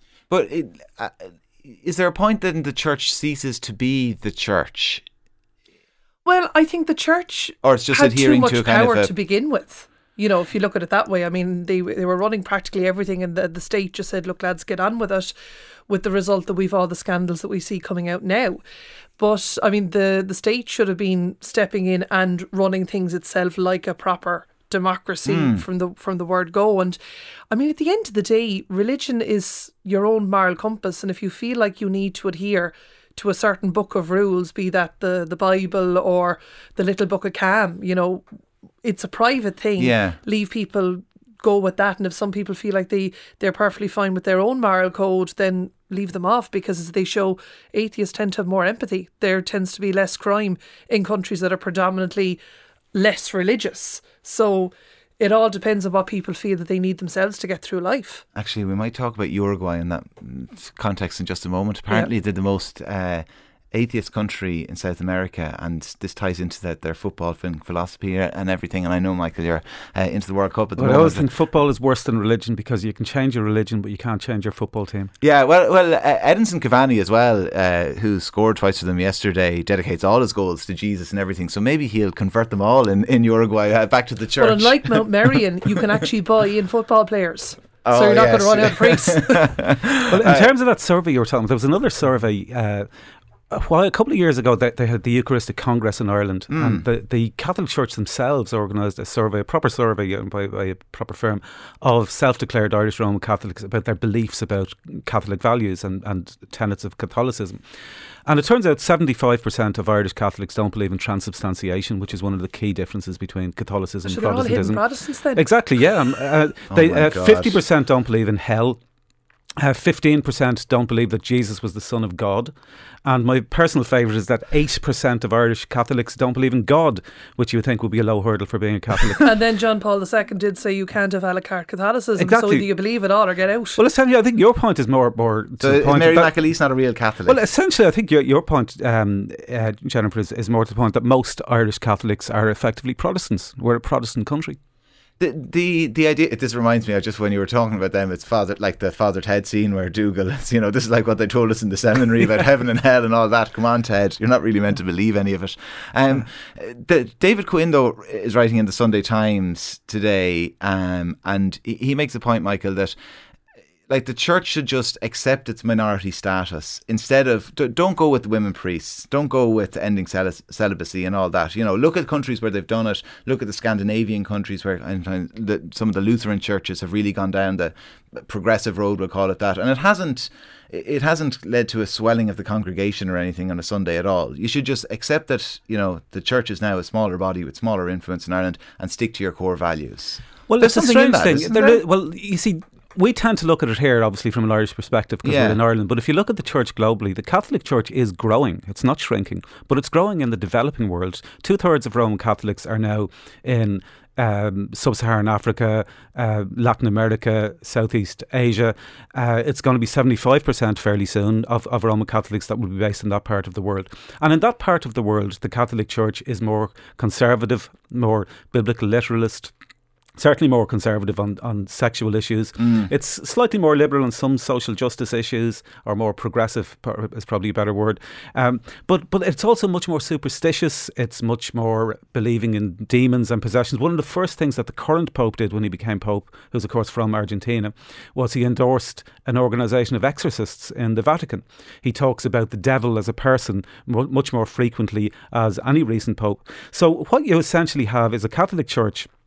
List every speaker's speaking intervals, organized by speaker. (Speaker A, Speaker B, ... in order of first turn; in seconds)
Speaker A: 0.3-5.0, 7.6-9.1, 25.2-25.6, 39.8-40.2, 58.3-71.3, 75.2-85.0, 87.8-90.5, 96.5-96.8, 116.7-117.6, 135.6-137.4, 145.2-162.9, 163.9-191.8, 195.2-195.6
Speaker B: 6.2-15.3, 15.9-18.6, 19.2-27.0, 27.5-38.2, 38.8-52.4, 52.9-58.2, 84.4-89.5, 114.0-115.5, 129.2-133.8
Speaker C: 70.8-75.1, 90.1-92.9, 93.5-107.6, 108.2-114.8, 115.3-118.8, 119.6-129.3, 132.2-132.7, 133.8-136.3, 137.3-144.6, 190.5-219.5, 220.2-249.1